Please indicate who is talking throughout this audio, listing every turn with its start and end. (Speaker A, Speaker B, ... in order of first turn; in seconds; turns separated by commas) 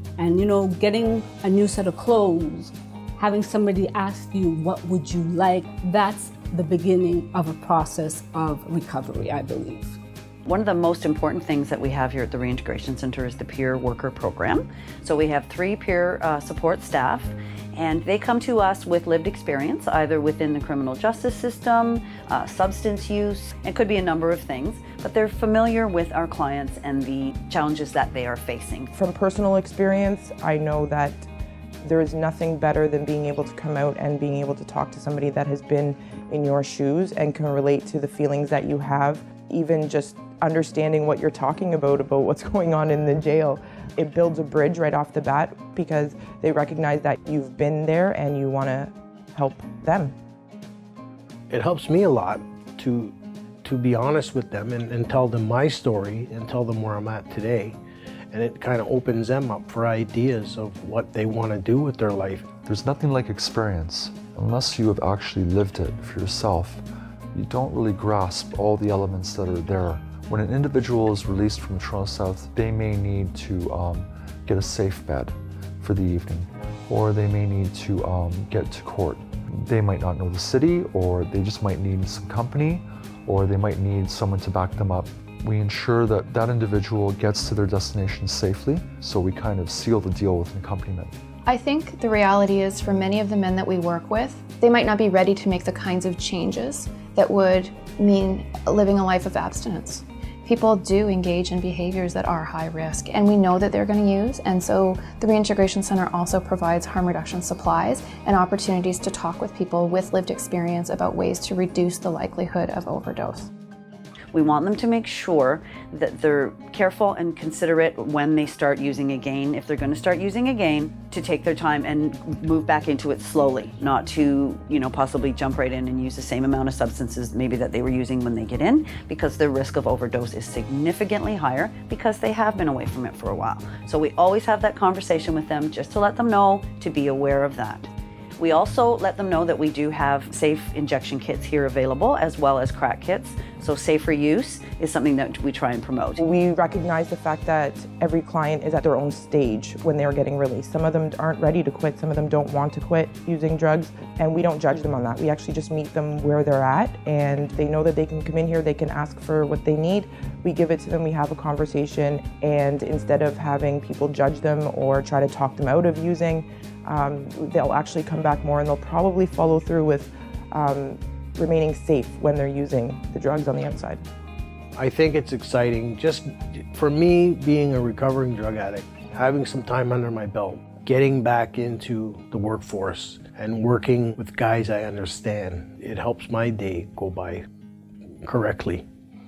Speaker A: 0.2-10.0, Speaker B: 10.4-28.9, Speaker C: 28.9-31.3, Speaker C: 31.8-50.1, Speaker D: 51.5-57.8, Speaker D: 58.3-62.5, Speaker E: 62.6-91.1, Speaker F: 91.4-113.5, Speaker B: 114.3-146.2, Speaker C: 146.2-174.0, Speaker D: 174.8-187.4, Speaker D: 188.2-188.8